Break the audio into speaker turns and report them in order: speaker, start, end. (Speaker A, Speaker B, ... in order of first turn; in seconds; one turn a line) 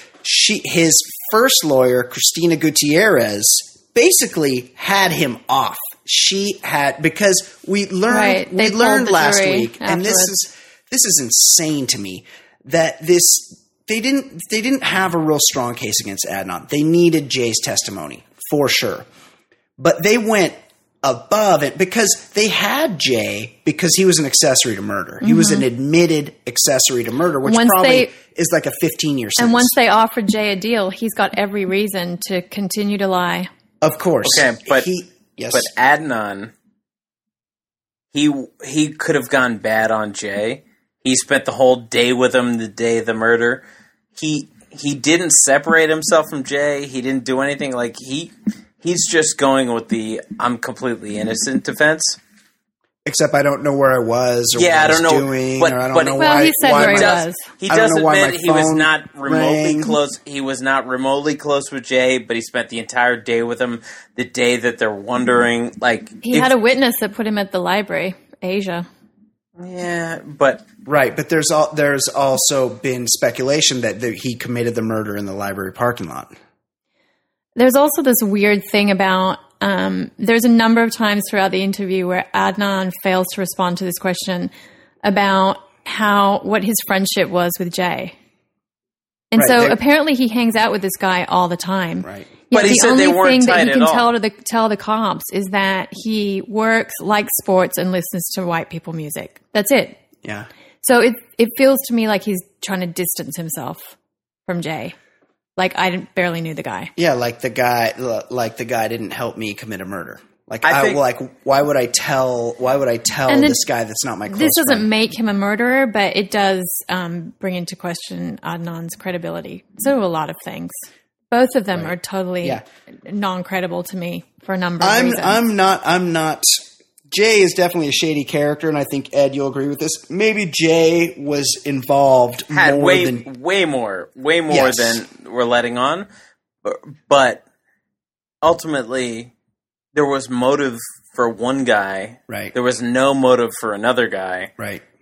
Speaker A: 0.2-19.1
Speaker B: 8.1-10.3
Speaker A: 19.8-29.7
Speaker B: 25.2-25.6
Speaker B: 27.4-28.1
Speaker B: 29.4-33.5
Speaker A: 33.8-35.7
Speaker C: 34.2-34.9
Speaker C: 35.5-36.5
Speaker C: 38.1-43.6
Speaker C: 44.1-52.2
Speaker A: 53.0-59.9
Speaker C: 54.5-66.5
Speaker B: 56.2-57.5
Speaker B: 66.2-68.8
Speaker C: 69.6-70.6
Speaker A: 70.8-76.3
Speaker B: 77.5-84.5
Speaker B: 85.0-88.1
Speaker B: 89.3-100.0
Speaker A: 89.3-89.8
Speaker A: 92.0-92.3
Speaker C: 92.5-94.1
Speaker A: 100.2-100.5
Speaker B: 100.8-103.9
Speaker B: 104.5-104.9
Speaker B: 105.6-106.9
Speaker A: 107.0-114.9
Speaker C: 110.6-111.0
Speaker B: 113.3-113.6
Speaker B: 114.3-125.4
Speaker A: 121.7-122.6
Speaker A: 124.8-126.5
Speaker A: 127.1-133.3
Speaker C: 132.5-136.1
Speaker A: 134.5-135.0
Speaker C: 136.6-137.4
Speaker C: 138.4-139.3
Speaker C: 139.9-144.5
Speaker A: 142.3-142.5
Speaker A: 144.6-144.8